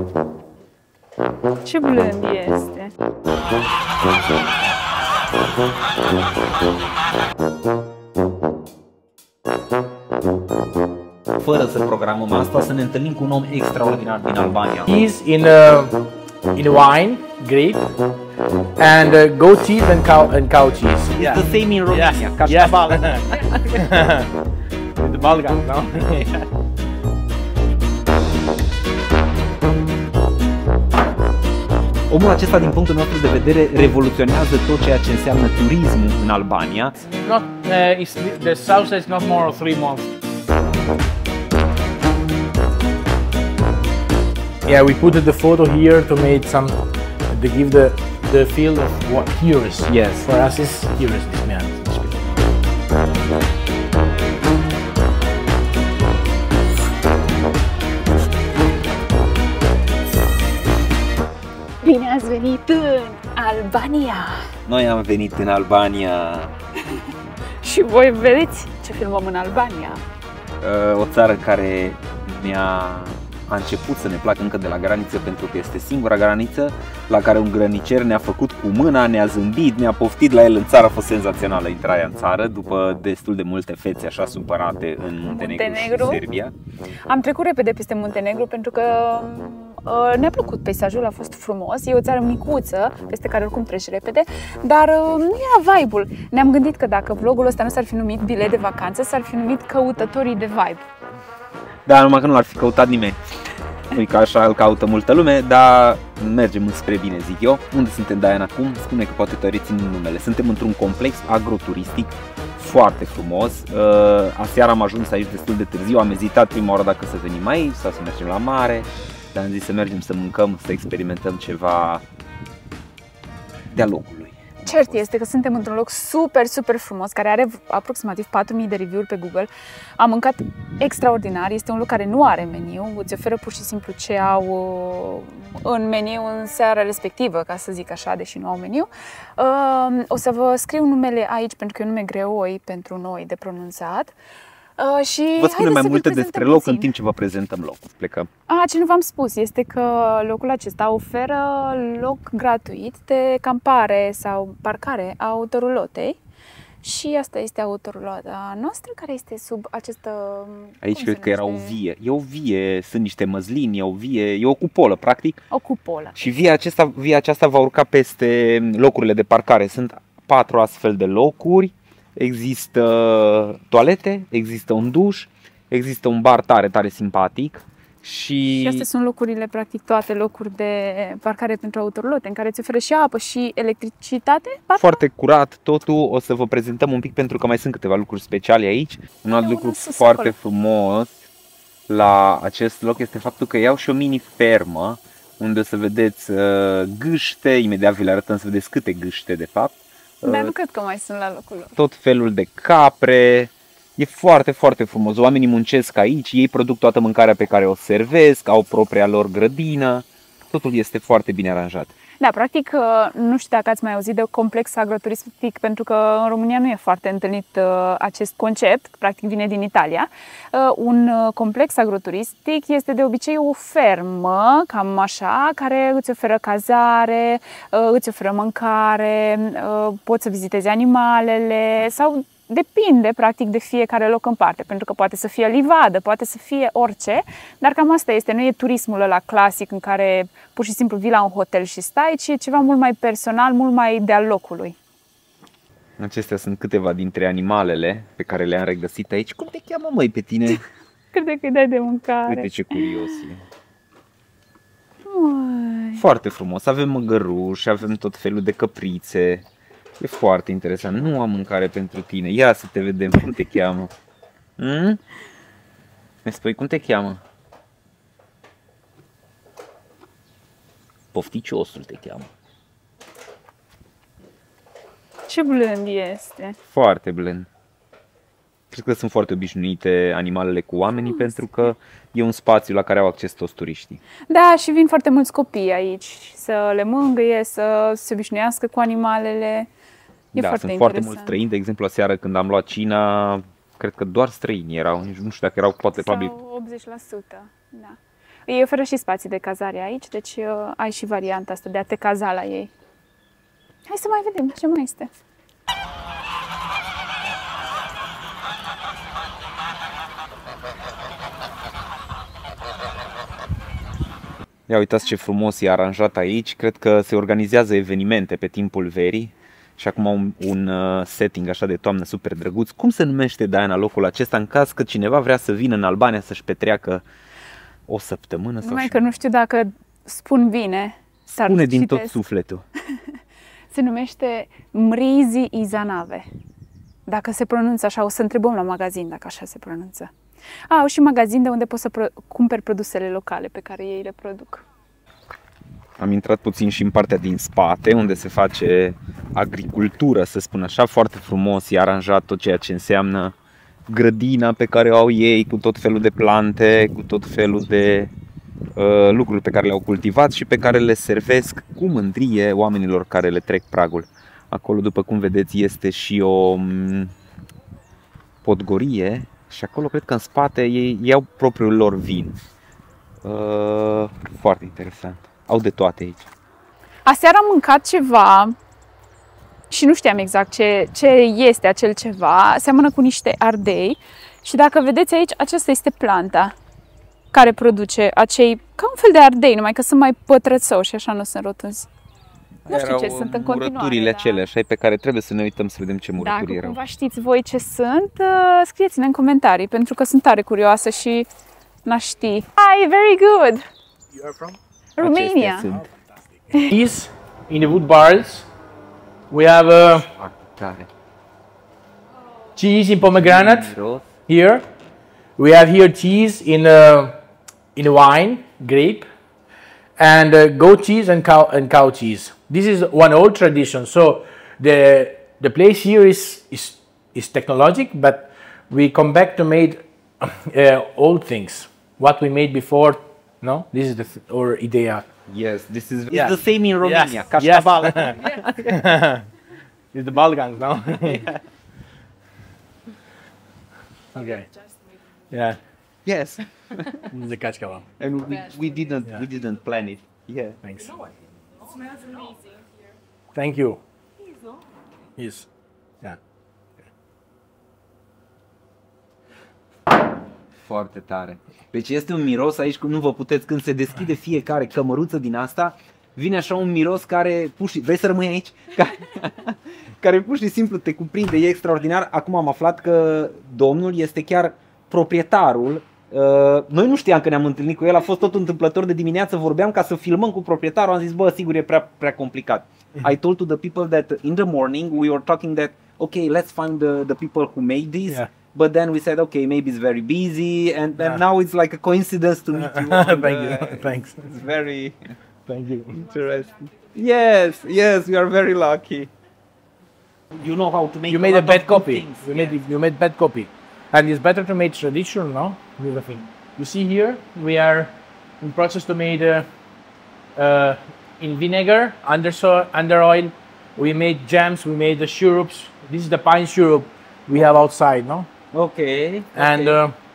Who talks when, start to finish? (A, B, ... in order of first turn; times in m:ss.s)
0:01.6-0:02.9 A
0:11.4-0:14.9 B
0:14.9-0:16.0 C
0:16.6-0:17.9 C
0:18.8-0:24.3 C
0:21.2-0:23.8 B
0:25.0-0:26.4 C
0:32.1-0:37.0 B
0:37.1-0:40.1 C
0:44.6-0:51.8 C
0:49.9-0:50.3 B
0:51.8-0:52.2 B
1:01.8-1:04.5 A
1:04.7-1:06.5 B
1:07.6-1:10.0 A
1:10.6-1:26.5 B
1:25.2-1:26.2 A
1:27.1-1:40.8 A
1:41.9-1:43.2 B
1:43.9-2:02.0 B
2:03.7-2:05.1 B
2:04.7-2:24.1 A
2:24.8-2:26.9 A
2:25.4-2:28.3 B
2:28.5-2:36.2 A
2:36.8-2:41.8 A
2:40.8-2:45.4 B
2:45.5-2:46.3 A
2:46.2-2:58.9 B
2:58.5-3:05.0 A
3:04.8-3:11.3 B
3:09.3-3:10.4 A
3:11.9-3:20.5 B
3:20.2-3:21.8 A
3:21.8-3:31.9 B
3:32.2-4:04.8 A
4:06.0-4:10.6 B
4:11.1-4:13.2 A
4:12.2-4:13.4 B
4:15.1-4:16.0 A
4:16.0-4:19.5 B
4:20.0-4:23.9 B
4:24.6-4:25.0 B
4:26.2-4:27.2 B
4:31.1-4:32.3 B
4:35.3-4:36.6 A
4:36.7-4:37.5 B
4:38.7-4:44.0 B
4:41.0-4:41.4 A
4:44.3-4:49.7 A
4:50.4-4:51.4 A
4:50.4-4:56.3 B
4:56.0-4:58.0 A
4:58.5-5:02.7 A
5:03.9-5:05.1 A
5:14.7-5:27.0 B
5:27.9-5:29.1 B
5:28.6-5:32.2 A
5:31.4-5:32.6 B
5:33.7-5:36.3 A
5:37.1-5:40.1 A
5:40.7-5:44.6 A
5:46.0-5:53.3 B
5:53.9-5:58.1 B
5:58.8-6:07.1 B
6:08.4-6:12.4 B
6:13.2-6:16.3 B
6:17.1-6:18.5 A
6:19.7-6:26.5 A
6:27.3-6:31.9 A
6:32.7-6:36.8 B
6:32.7-6:34.4 A
6:36.2-6:41.3 A
6:41.8-6:43.6 A
6:44.1-6:44.6 C
6:45.0-6:45.7 A
6:45.0-6:45.9 B
6:45.7-6:48.5 C
6:49.3-6:50.1 C
6:50.2-6:50.9 B
6:52.6-6:53.7 C
6:53.0-6:54.1 B
6:54.3-6:54.6 C
6:55.4-6:57.2 C
6:57.8-6:59.1 C
7:00.0-7:15.0 C
7:15.3-7:18.8 B
7:16.1-7:19.3 C
7:19.9-7:21.2 C
7:21.1-7:21.4 B
7:24.1-7:24.5 C
7:25.3-7:25.6 C
7:26.0-7:27.1 B
7:27.1-7:27.9 C
7:28.0-7:30.6 B
7:30.6-7:31.0 C
7:33.3-7:33.8 C
7:35.2-7:35.5 C
7:40.7-8:15.1 B
8:12.5-8:14.4 C
8:15.5-8:16.0 C
8:16.0-8:19.1 B
8:20.3-8:22.6 B
8:21.1-8:29.5 C
8:30.4-8:38.3 C
8:38.5-8:39.8 B
8:39.3-8:40.0 C